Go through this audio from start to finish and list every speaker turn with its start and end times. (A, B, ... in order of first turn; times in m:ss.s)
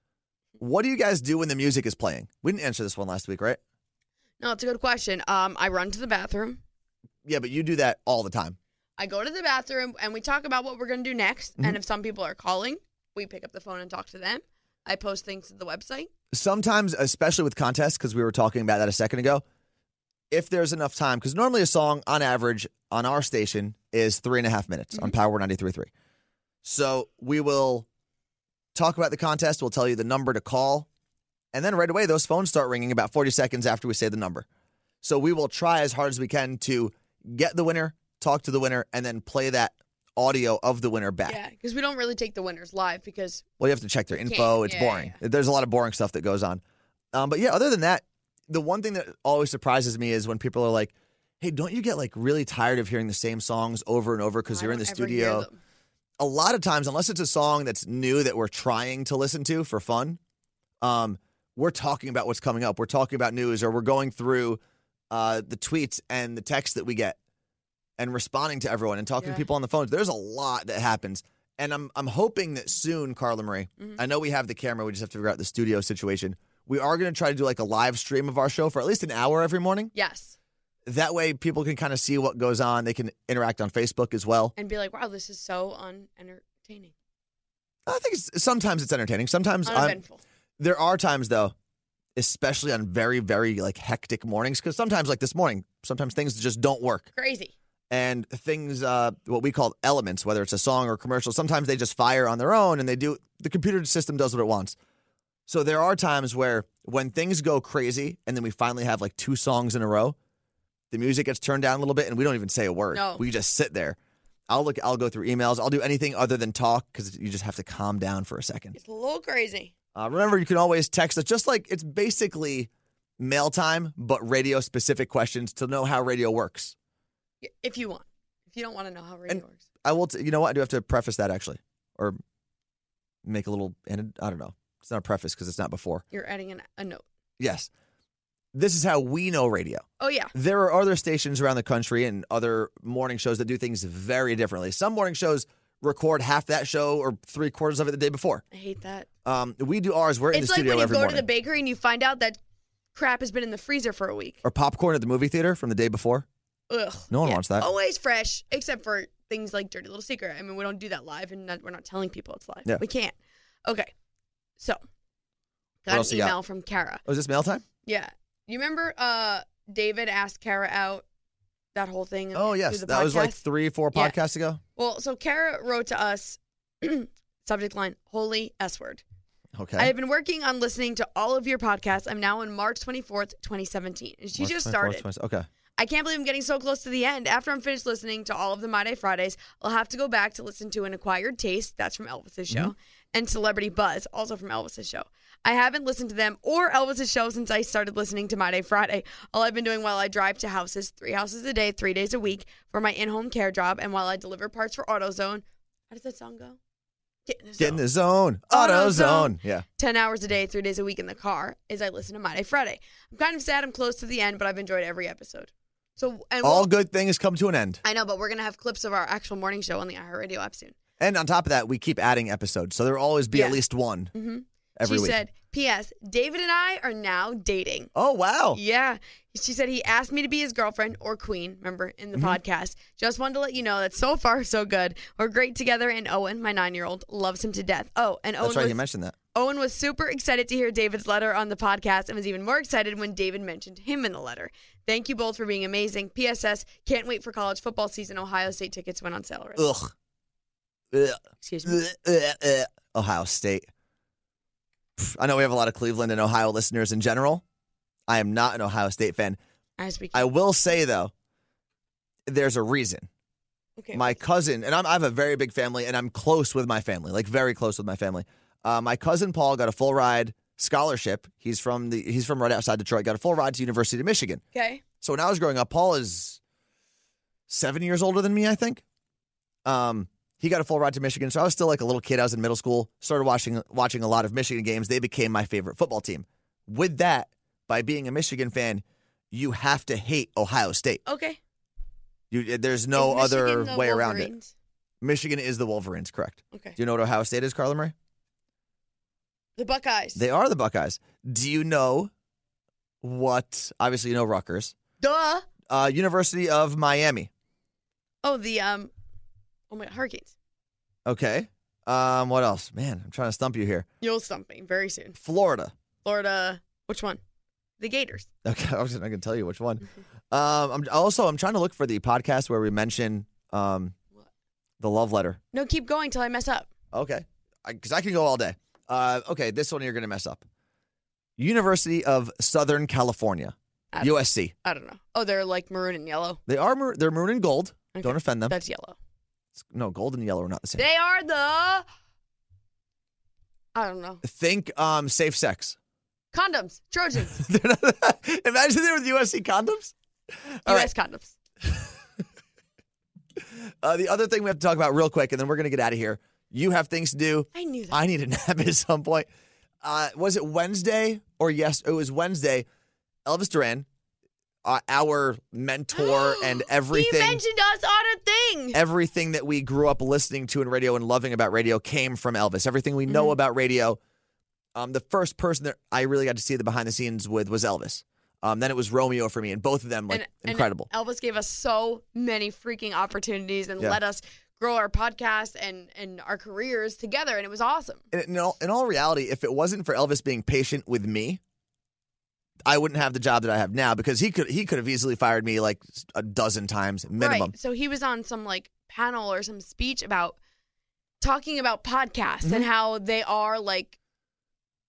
0:00.6-0:03.6 A
0:04.4-0:06.6 B
0:07.2-0:08.6 A
0:09.0-0:16.1 B
0:16.3-0:19.4 A
0:20.3-0:25.9 A
0:26.6-0:27.8 A
0:28.7-0:30.9 A
0:31.5-0:34.4 A
0:35.0-0:41.4 A
0:41.2-0:43.4 B
0:43.6-0:46.6 A
0:44.1-0:45.2 B
0:47.1-0:55.5 A
0:54.5-0:55.6 B
0:56.2-1:00.2 A
1:00.8-1:07.2 A
1:08.0-1:19.9 A
1:09.2-1:09.5 B
1:19.9-1:20.4 B
1:20.8-1:24.5 A
1:24.6-1:26.9 B
1:27.8-1:30.0 A
1:29.6-1:30.2 B
1:30.6-1:31.5 A
1:32.2-1:37.1 A
1:37.1-1:37.5 B
1:37.9-1:44.8 A
1:45.5-1:50.2 A
1:50.9-1:54.0 A
1:52.9-1:53.2 B
1:54.5-1:58.8 A
1:58.8-1:59.7 B
1:59.9-2:06.7 A
2:07.4-2:09.6 B
2:09.3-2:12.2 A
2:13.2-2:16.0 A
2:16.1-2:17.0 B
2:17.4-2:17.7 A
2:18.5-2:28.4 A
2:20.0-2:20.3 B
2:28.5-2:29.1 B
2:29.2-2:31.2 A
2:30.3-2:32.4 B
2:32.9-2:34.4 B
2:34.4-2:36.2 A
2:36.7-2:43.9 B
2:37.1-2:37.7 A
2:45.8-2:47.0 B
2:45.9-2:46.4 A
2:47.0-2:47.6 A
2:47.8-2:51.0 B
2:51.7-2:53.4 B
2:52.3-2:54.6 A
2:54.8-2:59.0 B
2:59.5-2:59.9 A
2:59.8-3:05.0 B
3:04.4-3:05.5 A
3:05.8-3:26.6 B
3:27.2-3:27.8 B
3:27.6-3:29.6 A
3:28.5-3:36.7 B
3:36.4-3:37.8 A
3:37.8-3:40.8 B
3:41.0-3:44.1 A
3:43.3-3:43.6 B
3:44.1-3:47.9 B
3:44.8-3:45.2 A
3:47.9-3:48.6 A
3:48.5-3:58.8 B
3:58.4-3:59.2 A
3:59.3-4:09.7 B
4:09.6-4:09.9 A
4:10.9-4:13.7 A
4:11.4-4:11.8 B
4:15.0-4:17.4 A
4:18.1-4:19.4 A
4:19.8-4:20.3 B
4:20.1-4:21.1 A
4:22.3-4:23.1 A
4:23.8-4:24.2 B
4:23.9-4:34.4 A
4:34.5-4:34.8 B
4:35.0-4:36.4 A
4:37.5-4:38.8 A
4:39.6-4:51.0 A
4:51.0-4:51.4 B
4:52.3-4:54.3 A
4:52.9-4:54.5 B
4:55.0-4:57.9 A
4:59.6-5:00.2 B
5:00.2-5:02.1 A
5:03.0-5:04.7 A
5:05.0-5:05.5 B
5:05.7-5:07.3 A
5:08.2-5:08.9 B
5:09.7-5:10.3 B
5:11.0-5:13.8 A
5:14.0-5:15.2 B
5:15.2-5:15.7 A
5:16.0-5:17.2 B
5:17.8-5:18.3 B
5:18.4-5:24.0 A
5:24.8-5:25.4 A
5:25.5-5:26.7 B
5:26.9-5:30.4 A
5:31.4-5:34.5 A
5:33.9-5:36.4 B
5:36.4-5:38.6 A
5:37.9-5:39.0 B
5:39.6-5:40.8 A
5:40.8-5:41.8 B
5:43.7-5:44.2 B
5:44.2-5:45.8 A
5:46.3-5:47.4 B
5:47.3-5:50.9 A
5:50.6-5:51.3 B
5:53.4-5:59.3 A
5:57.5-5:58.0 B
5:59.8-6:02.6 A
6:03.2-6:03.8 A
6:04.6-6:07.4 A
6:05.9-6:08.8 B
6:08.7-6:14.0 A
6:13.1-6:13.4 B
6:14.7-6:20.9 A
6:20.1-6:28.0 B
6:28.1-6:31.4 A
6:32.7-6:37.5 A
6:37.2-6:40.4 B
6:41.2-6:44.0 B